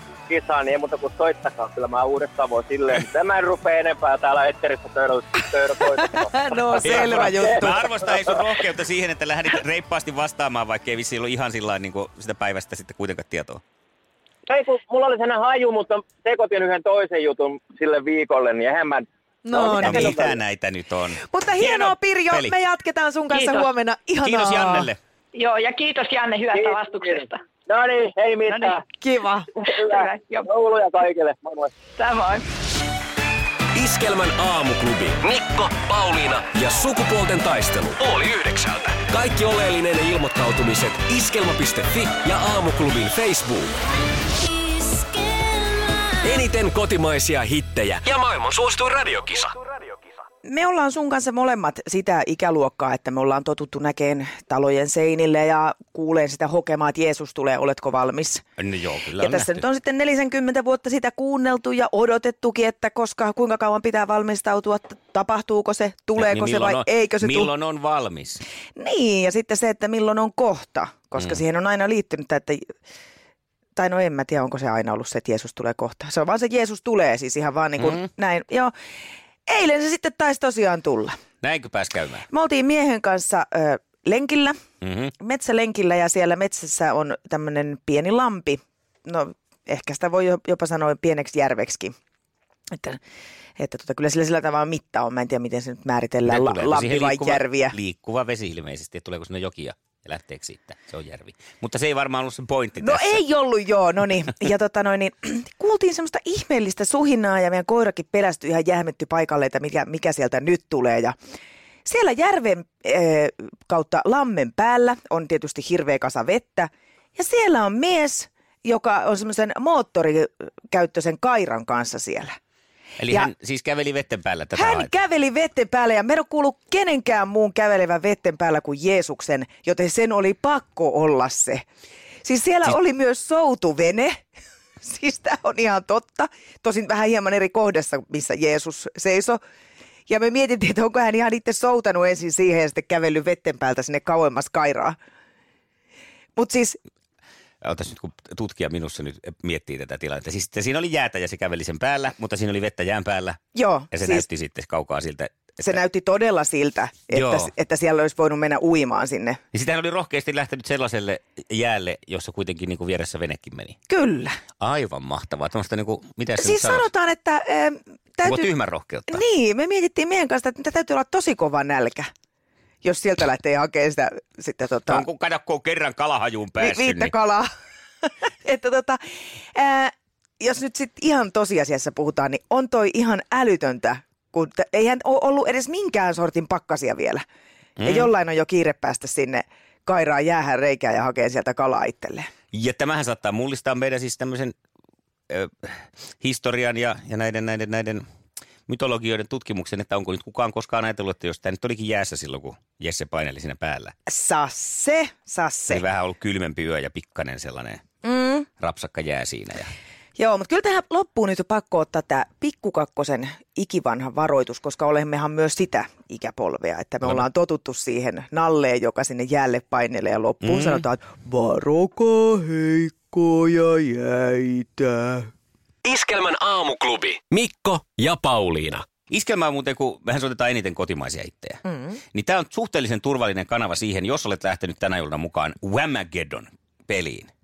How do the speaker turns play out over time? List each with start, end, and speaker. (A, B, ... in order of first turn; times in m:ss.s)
0:00.2-0:06.3 A
0:05.8-0:07.8 B
0:06.8-0:07.6 A
0:06.8-0:13.6 C
0:14.5-0:20.3 A
0:19.4-0:20.3 B
0:19.8-0:22.6 C
0:21.2-0:24.9 B
0:23.3-0:23.7 D
0:24.2-0:25.0 C
0:25.3-0:27.4 D
0:26.5-0:28.8 A
0:28.5-0:28.8 D
0:28.9-0:29.5 B
0:29.5-0:30.5 D
0:29.7-0:31.8 A
0:31.9-0:32.4 D
0:33.7-0:43.7 E
0:46.1-0:49.9 E
0:50.4-0:58.4 B
0:58.6-0:59.6 C
0:59.2-1:07.5 B
1:06.2-1:08.4 C
1:08.8-1:12.6 B
1:13.8-1:18.7 B
1:19.4-1:21.1 B
1:21.4-1:22.2 C
1:22.3-1:24.6 B
1:24.8-1:25.1 C
1:25.2-1:31.9 B
1:33.6-1:37.8 B
1:36.2-1:43.2 C
1:42.8-1:51.1 B
1:51.8-2:02.4 B
2:03.0-2:04.9 C
2:04.6-2:11.6 B
2:12.2-2:14.2 B
2:14.8-2:19.4 B
2:20.1-2:25.0 B
2:26.4-2:26.8 B
2:27.6-2:33.4 C
2:33.5-2:34.2 B
2:33.9-2:35.8 C
2:35.6-2:39.4 B
2:37.1-2:37.5 C
2:39.5-2:43.8 C
2:43.9-2:44.4 B
2:44.6-2:46.9 C
2:46.4-2:48.5 B
2:48.2-2:49.2 C
2:49.1-2:52.1 B
2:52.8-2:55.1 B
2:54.9-2:57.1 C
2:56.6-2:57.5 B
2:58.0-2:59.0 B
2:59.6-3:07.2 B
3:07.8-3:08.1 C
3:07.8-3:12.3 B
3:12.5-3:14.6 C
3:15.3-3:18.0 C
3:18.7-3:23.9 C
3:24.1-3:25.8 B
3:25.7-3:27.8 C
3:28.0-3:28.5 B
3:28.6-3:29.7 C
3:30.2-3:45.3 B
3:40.4-3:40.8 C
3:45.8-3:48.8 E
3:49.1-3:51.6 C
3:51.6-3:52.0 B
3:52.1-3:57.3 C